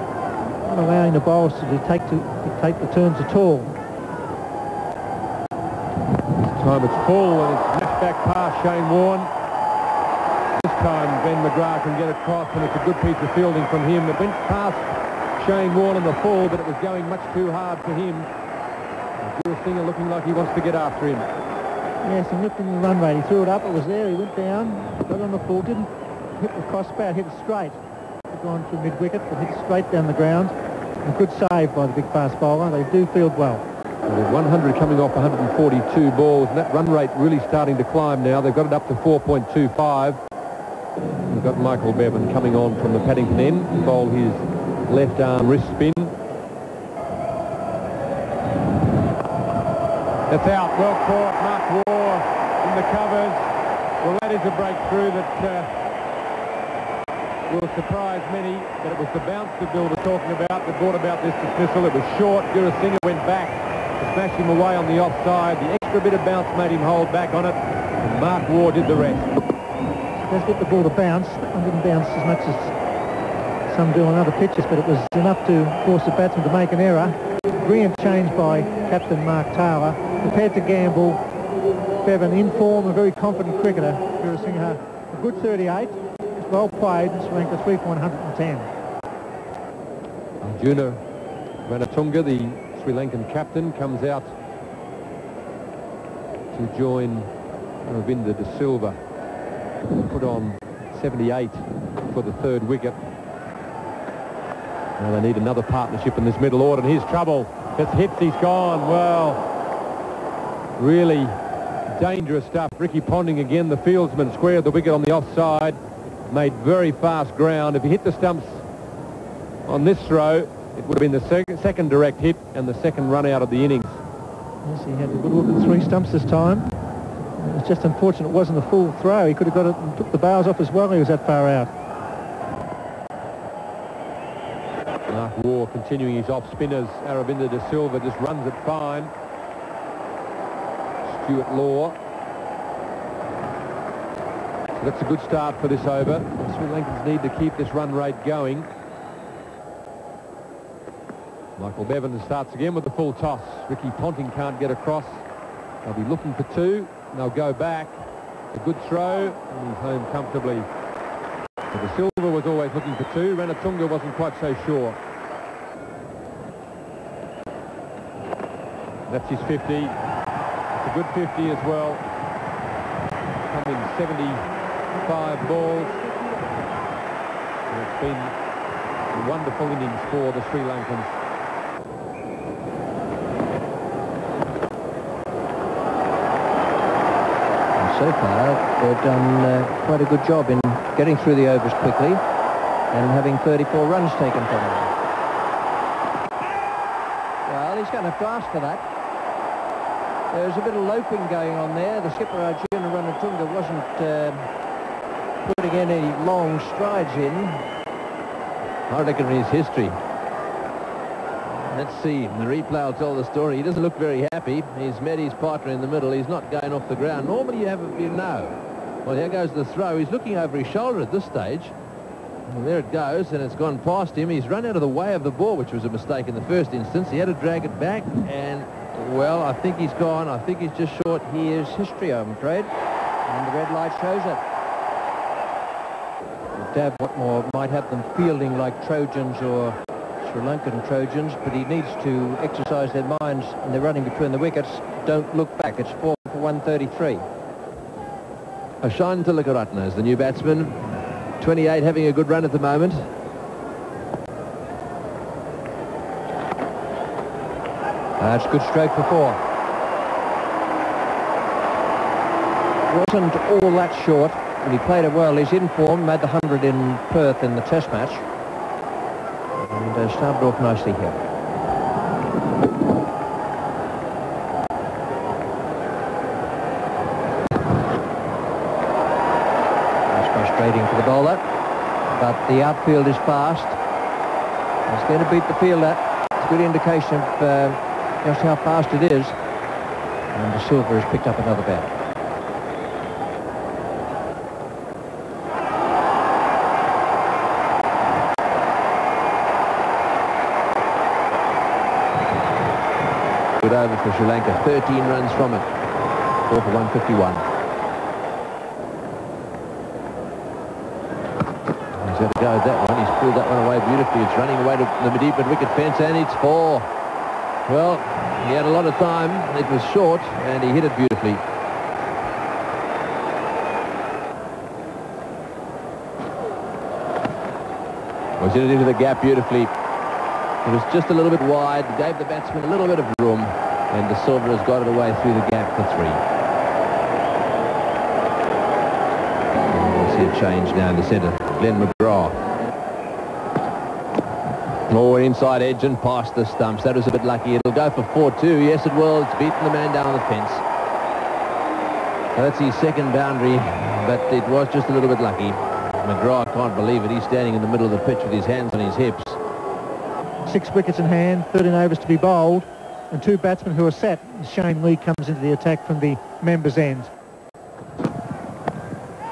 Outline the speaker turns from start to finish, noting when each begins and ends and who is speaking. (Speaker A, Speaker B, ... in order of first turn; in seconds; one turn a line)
Speaker A: 0.6-3.7
Speaker B: 6.5-9.3
Speaker B: 10.6-18.3
Speaker B: 19.2-21.3
Speaker A: 22.0-27.8
Speaker A: 28.3-33.6
Speaker B: 34.1-40.2
Speaker B: 41.3-46.1
Speaker B: 50.3-53.5
Speaker B: 54.0-55.7
Speaker B: 57.5-69.4
Speaker A: 70.3-72.7
Speaker A: 73.7-81.2
Speaker A: 82.0-88.7
Speaker B: 90.4-91.0
Speaker B: 91.6-94.3
Speaker B: 96.5-97.3
Speaker B: 97.8-99.0
Speaker B: 99.9-103.0
Speaker B: 105.0-109.4
Speaker B: 110.8-111.4
Speaker B: 111.9-115.8
Speaker B: 116.3-118.6
Speaker B: 119.7-124.0
Speaker A: 124.6-126.7
Speaker A: 127.4-131.7
Speaker B: 135.1-139.1
Speaker B: 141.1-142.0
Speaker B: 144.8-148.7
Speaker B: 151.6-155.2
Speaker B: 155.8-158.0
Speaker B: 158.5-160.7
Speaker B: 161.7-165.0
Speaker B: 169.1-169.9
Speaker B: 170.7-172.0
Speaker B: 173.5-174.4
Speaker B: 175.0-176.0
Speaker B: 177.7-178.3
Speaker B: 179.1-181.1
Speaker C: 187.8-192.2
Speaker C: 192.9-194.9
Speaker C: 197.5-198.8
Speaker C: 200.3-204.5
Speaker C: 205.4-207.6
Speaker D: 208.9-210.0
Speaker D: 211.5-221.7
Speaker D: 222.5-231.4
Speaker C: 231.4-232.7
Speaker C: 233.2-234.4
Speaker C: 236.5-247.2
Speaker D: 248.8-253.1
Speaker C: 258.2-259.4
Speaker C: 262.9-268.2
Speaker C: 269.6-271.2
Speaker C: 280.1-281.4
Speaker C: 282.1-283.8
Speaker C: 284.9-289.3
Speaker C: 290.3-291.9
Speaker D: 303.6-305.7
Speaker D: 306.5-307.4
Speaker D: 312.0-316.9
Speaker D: 317.7-321.4
Speaker D: 328.4-329.7
Speaker D: 330.6-336.2
Speaker D: 339.7-342.4
Speaker D: 344.9-350.6
Speaker D: 352.3-359.4
Speaker A: 360.4-367.1